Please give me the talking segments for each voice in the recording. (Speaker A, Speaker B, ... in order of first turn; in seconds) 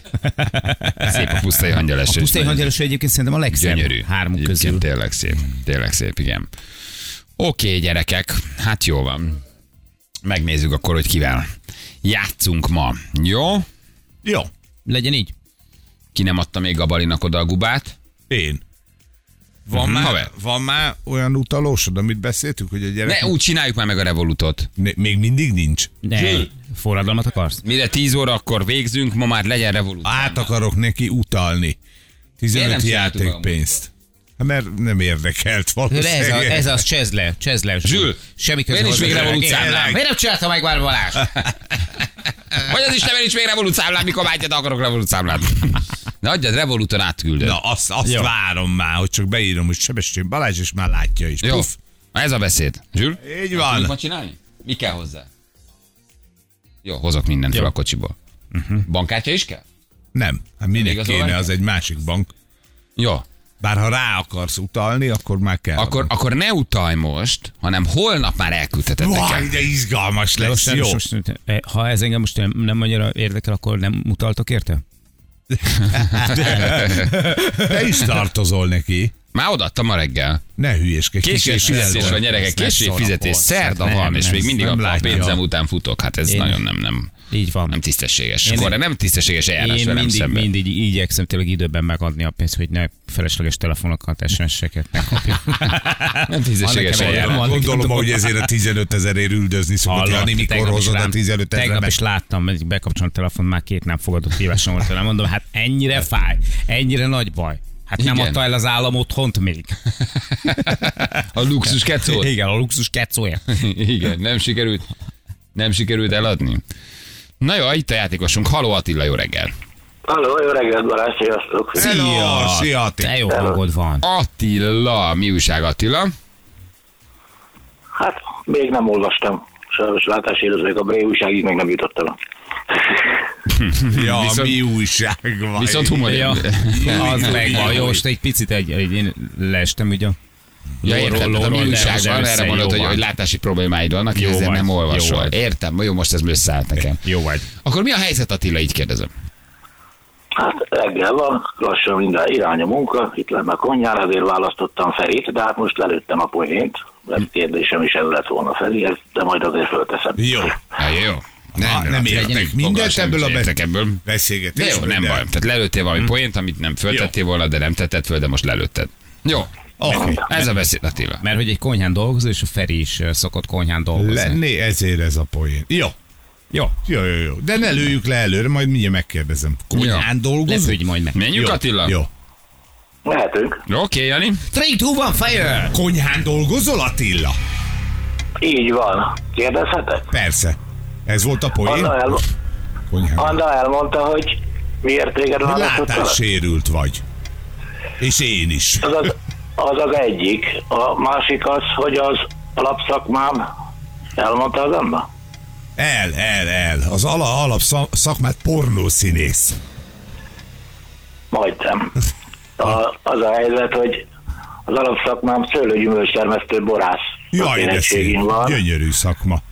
Speaker A: 0.2-1.1, 2.1-4.8, 14.9-15.3, 26.0-27.6, 35.9-41.3, 48.0-48.3, 58.5-58.9, 70.4-74.8, 76.2-77.7, 81.8-82.9, 83.5-84.5, 86.3-86.6, 87.3-87.8, 88.4-88.8, 89.6-98.4, 99.9-109.8, 110.5-111.2, 111.9-113.5, 121.8-124.0, 136.1-140.2, 140.8-143.0, 144.1-145.3, 147.0-147.5, 171.2-174.4, 180.5-181.2, 184.5-185.8
Speaker B: 1.0-2.7, 3.5-6.5, 7.4-9.4, 10.2-11.5, 12.0-13.7, 16.1-18.0, 19.8-20.3, 23.1-24.7, 27.6-30.5, 32.5-33.6, 37.8-38.2, 38.7-40.0, 42.5-47.6, 51.4-55.3, 56.8-58.1, 58.9-59.6, 60.8-61.5, 63.0-63.2, 65.8-69.6, 75.8-77.2, 79.3-80.4, 81.2-87.1, 87.7-90.5, 96.1-97.7, 108.0-108.4, 110.4-112.3, 113.5-114.9, 115.5-116.6, 117.4-119.5, 124.0-126.1, 133.6-134.6, 135.6-138.0, 140.8-149.1, 160.8-164.0, 164.6-171.2, 179.7-180.1, 181.1-182.0, 183.7-184.4
Speaker C: 14.2-14.5, 18.3-18.6, 19.7-23.4, 24.8-26.0, 30.0-31.8, 32.4-36.8, 38.9-40.0, 47.4-51.8, 53.2-53.9, 60.1-62.3, 63.6-66.1, 69.0-71.0, 76.0-76.7, 77.2-79.1, 80.6-85.4, 96.9-102.0, 121.7-123.1, 133.9-138.0, 160.2-160.6, 161.6-165.2, 169.8-170.3, 173.9-175.9, 176.8-180.8, 181.3-182.1, 185.7-187.4, 190.1-192.2, 192.9-193.4, 195.4-197.0, 198.0-199.1, 205.8-209.6, 217.3-219.4
Speaker D: 120.1-121.9, 123.3-123.6, 128.0-132.1, 150.4-160.6, 183.1-183.6, 188.4-190.1, 191.7-192.2, 193.2-196.2, 198.8-203.4, 204.2-205.1, 211.3-211.9, 212.6-214.1, 214.7-218.6